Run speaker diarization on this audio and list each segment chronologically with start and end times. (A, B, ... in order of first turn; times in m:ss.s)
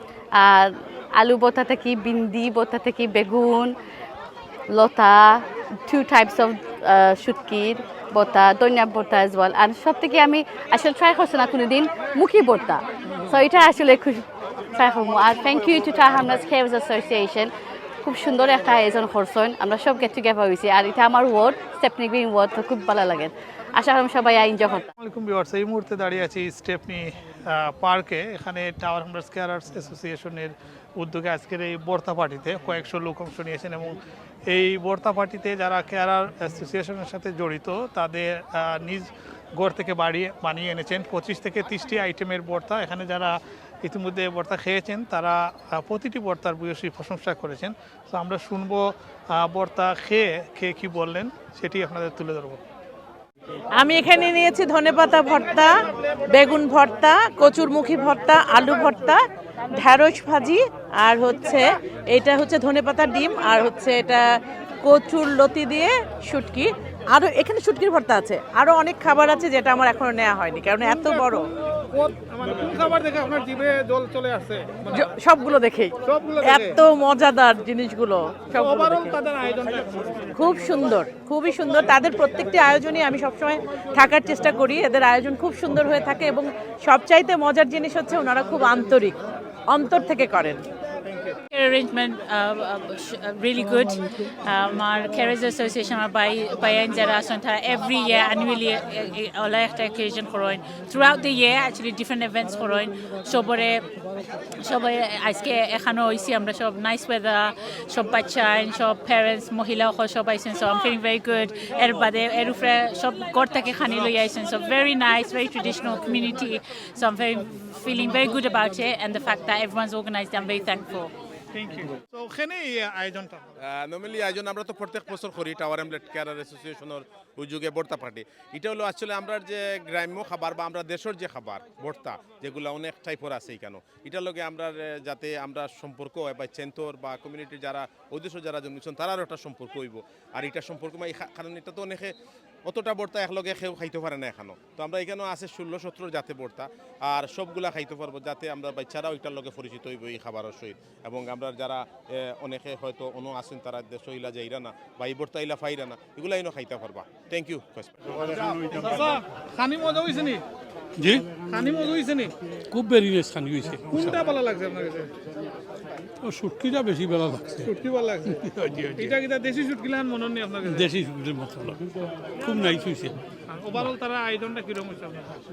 0:00.4-0:03.7 A
0:04.7-0:17.5 A
0:18.0-0:24.9 A
0:25.0-0:34.0 B
0:34.5-0:52.6 B
0:53.7-0:59.2 C
0:59.7-1:04.2 C
1:04.8-1:11.4 C
1:10.8-1:15.1 B
1:14.9-1:19.2 C
1:16.0-1:16.8 B
1:18.5-1:20.0 B
1:20.4-1:30.6 C
1:31.1-1:31.3 B
1:31.5-1:43.8 D
1:44.6-2:01.1 D
2:01.5-2:03.4 B
2:03.6-2:22.1 E
2:22.6-2:38.9 E
2:38.8-2:40.4 B
2:41.0-2:41.3 F
2:41.4-2:42.3 B
2:42.7-2:44.3 F
2:43.9-2:45.1 B
2:46.2-2:49.2 F
2:47.6-2:48.4 B
2:49.0-2:50.8 B
2:50.6-2:51.8 F
2:52.4-2:53.2 F
2:53.5-2:55.3 B